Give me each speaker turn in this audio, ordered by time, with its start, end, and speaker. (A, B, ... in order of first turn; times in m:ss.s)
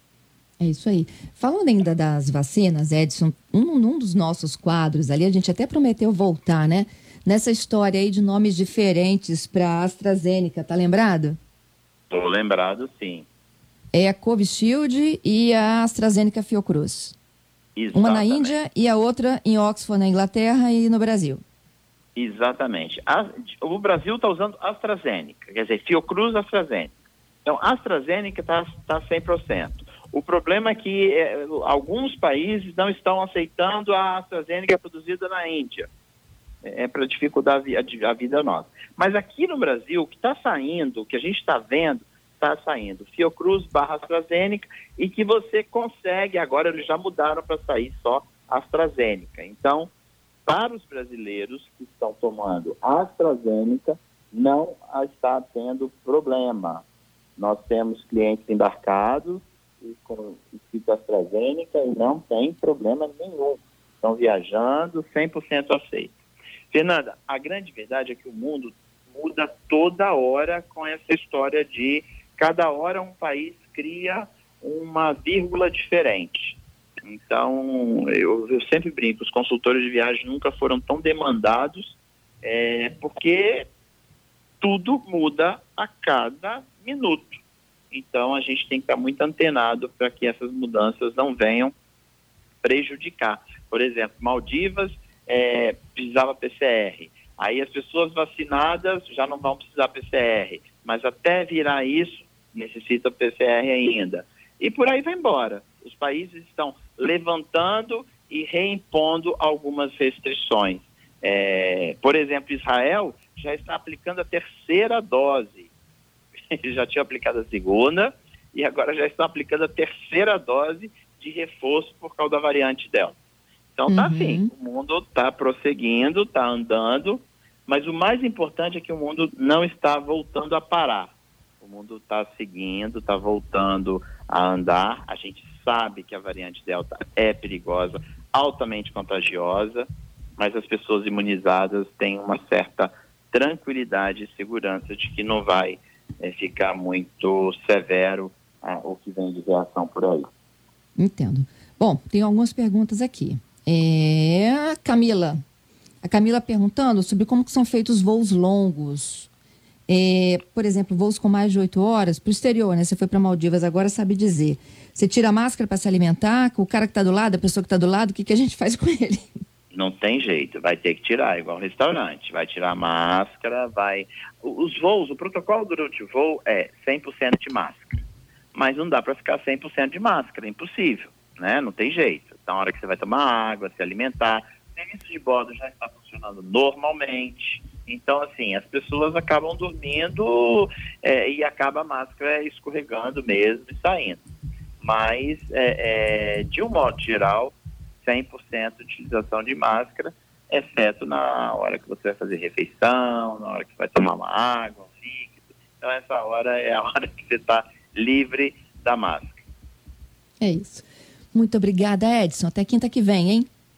0:00.6-0:11.4 A
0:12.1-0:13.3 B
0:13.9-0:17.1 A
0:17.8-0:18.5 B
0:17.9-0:21.4 A
0:22.1-0:26.9 B
0:27.4-0:35.9 B
0:36.6-0:49.9 B
0:50.4-0:56.8 B
0:57.4-1:06.1 B
1:06.7-1:23.7 B
1:24.6-1:27.4 B
1:27.9-1:31.7 B
1:32.6-1:55.7 B
1:56.5-2:03.2 B
2:03.7-2:19.8 B
2:03.9-2:04.5 A
2:20.4-2:30.3 B
2:31.0-2:35.4 A
2:36.0-2:39.3 A
2:39.9-2:49.3 A
2:49.7-2:58.0 B
2:58.5-3:14.2 B
3:14.8-3:29.4 B
3:30.4-3:33.5 A